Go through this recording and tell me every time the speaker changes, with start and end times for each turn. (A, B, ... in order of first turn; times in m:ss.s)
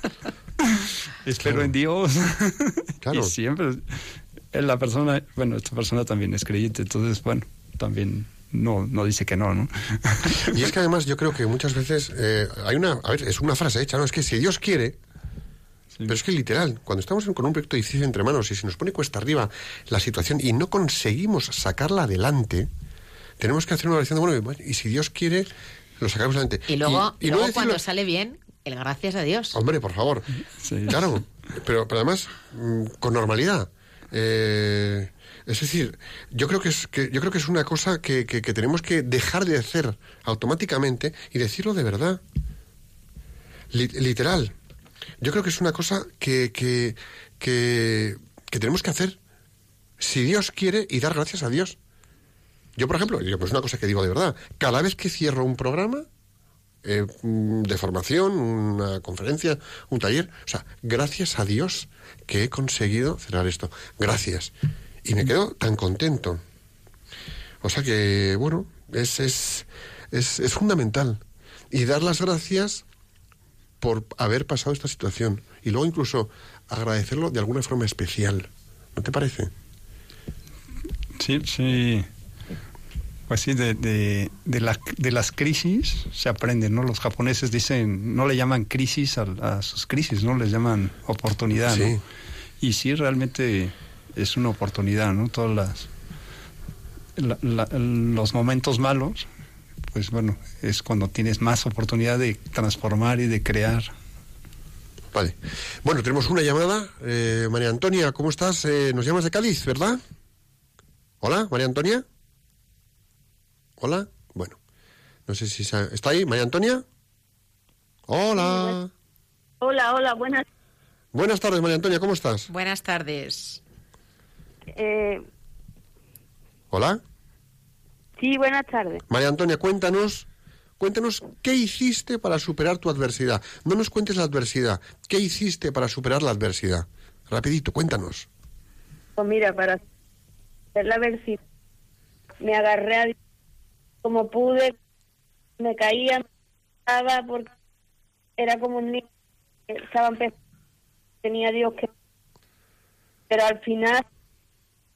0:00.6-0:10.6 A
0:01.4-0:01.7 B
0:03.0-0:03.3 B
0:10.5-0:15.0 B
0:16.1-0:22.7 B
0:23.4-0:27.8 B
0:26.7-0:29.6 C
0:29.5-0:30.3 B
0:30.6-0:31.0 A
0:30.8-0:42.2 B
0:43.7-0:44.5 B
0:45.2-0:49.2 B
0:50.0-0:51.8 B
0:52.8-0:56.0 B
0:56.8-1:04.5 B
1:05.0-1:06.4 B
1:07.6-1:12.8 B
1:13.8-1:19.5 B
1:21.2-1:22.1 A
1:23.3-1:32.0 A
1:31.7-1:32.0 B
1:32.6-1:35.9 A
1:37.2-1:39.3 A
1:39.9-1:43.9 A
1:45.1-1:50.0 B
1:51.2-1:52.0 B
1:53.8-1:54.6 B
1:55.3-1:56.8 B
1:58.1-1:58.9 B
1:58.3-1:58.8 D
1:59.6-2:00.4 D
2:01.1-2:02.5 B
2:02.5-2:03.6 C
2:04.7-2:05.2 D
2:06.7-2:07.0 B
2:08.2-2:09.0 D
2:09.1-2:10.3 B
2:10.8-2:18.3 B
2:19.2-2:19.8 D
2:20.7-2:21.4 D
2:22.4-2:23.2 D
2:24.0-2:24.7 D
2:25.6-2:26.2 D
2:26.8-2:27.5 D
2:28.4-2:29.0 D
2:29.7-2:30.3 D
2:31.2-2:31.9 D
2:33.3-2:34.0 D